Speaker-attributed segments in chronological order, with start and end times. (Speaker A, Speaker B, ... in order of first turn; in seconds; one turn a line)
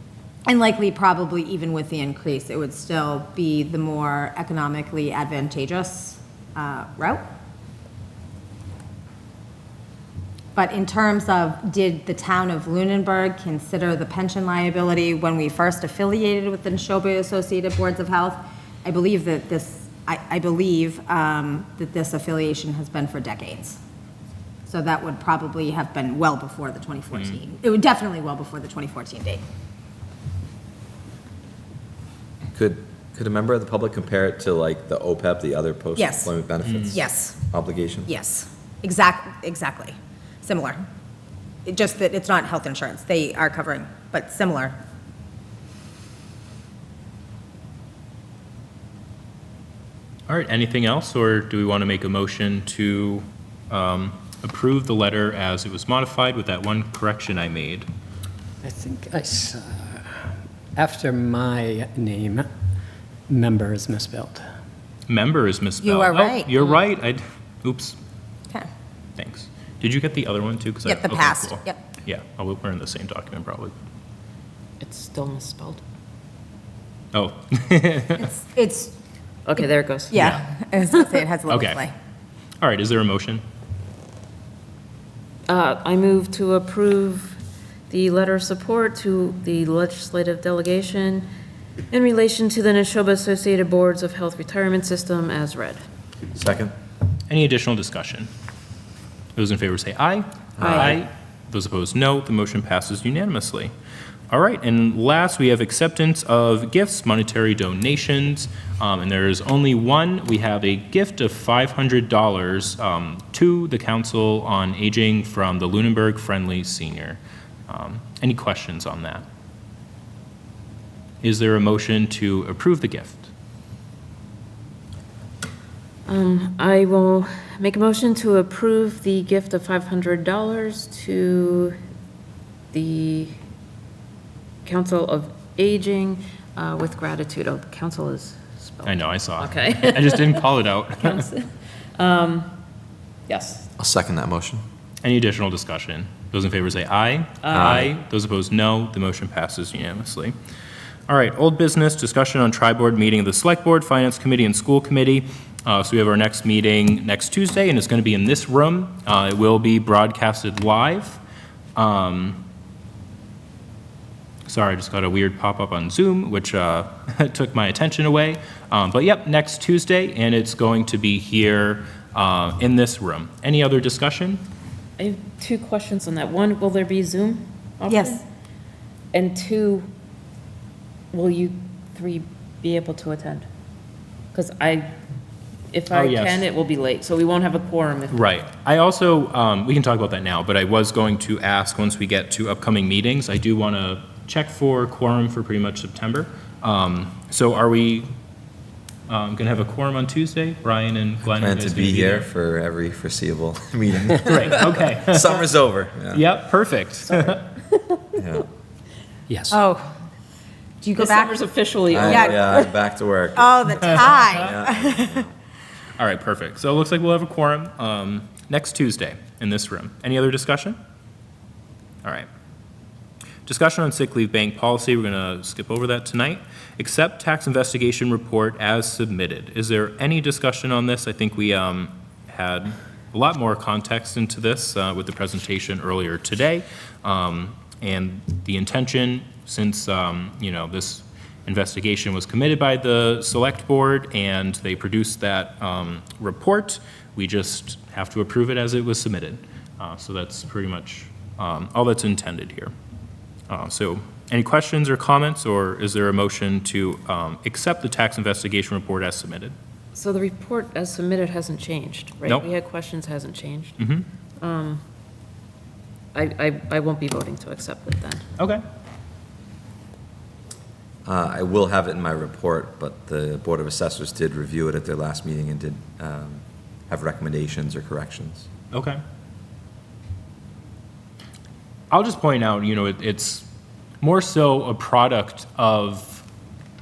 Speaker A: 0.5-7.2
Speaker A: 10.5-23.8
Speaker A: 24.7-29.4
Speaker B: 32.5-38.1
Speaker A: 36.0-36.3
Speaker C: 36.6-36.9
Speaker A: 36.9-37.4
Speaker A: 38.0-40.8
Speaker A: 41.6-44.8
Speaker C: 50.3-57.9
Speaker D: 58.6-62.5
Speaker D: 63.3-64.4
Speaker C: 65.1-68.0
Speaker A: 65.8-66.7
Speaker C: 69.2-73.7
Speaker A: 70.8-71.8
Speaker E: 74.8-75.8
Speaker C: 77.1-78.2
Speaker A: 78.2-79.0
Speaker E: 79.5-80.3
Speaker A: 79.6-81.9
Speaker C: 80.2-80.4
Speaker C: 81.5-81.8
Speaker C: 82.6-83.4
Speaker E: 85.5-91.3
Speaker E: 91.9-95.8
Speaker B: 96.3-96.7
Speaker C: 97.3-98.3
Speaker C: 99.3-103.7
Speaker B: 100.6-101.0
Speaker E: 100.6-101.0
Speaker C: 104.3-119.2
Speaker C: 121.2-123.3
Speaker E: 126.1-131.8
Speaker E: 132.7-133.4
Speaker E: 134.6-142.5
Speaker C: 138.8-141.3
Speaker E: 143.3-143.7
Speaker B: 143.8-144.6
Speaker C: 145.0-150.3
Speaker E: 147.4-147.9
Speaker B: 147.5-147.9
Speaker C: 151.1-161.2
Speaker C: 161.8-162.4
Speaker C: 164.5-174.4
Speaker E: 175.0-178.2
Speaker A: 177.9-178.2
Speaker E: 179.1-179.9
Speaker E: 181.1-183.5
Speaker E: 184.3-184.9
Speaker E: 185.7-188.2
Speaker C: 185.9-186.4
Speaker C: 188.1-198.1
Speaker C: 199.1-202.3
Speaker B: 201.3-206.2
Speaker C: 204.2-205.4
Speaker C: 206.1-207.4
Speaker E: 207.2-208.1
Speaker B: 208.1-208.4
Speaker D: 209.3-209.6
Speaker A: 209.5-209.9
Speaker A: 210.8-211.4
Speaker E: 210.9-212.7
Speaker B: 211.9-215.3
Speaker A: 211.9-212.6
Speaker A: 213.3-215.3
Speaker C: 216.0-220.8
Speaker C: 223.4-252.7
Speaker C: 253.5-259.5
Speaker E: 259.9-263.8
Speaker C: 263.8-264.1
Speaker E: 264.4-264.8
Speaker E: 266.1-268.2
Speaker B: 271.0-278.5
Speaker C: 278.7-279.0
Speaker C: 281.9-283.4
Speaker C: 284.0-286.2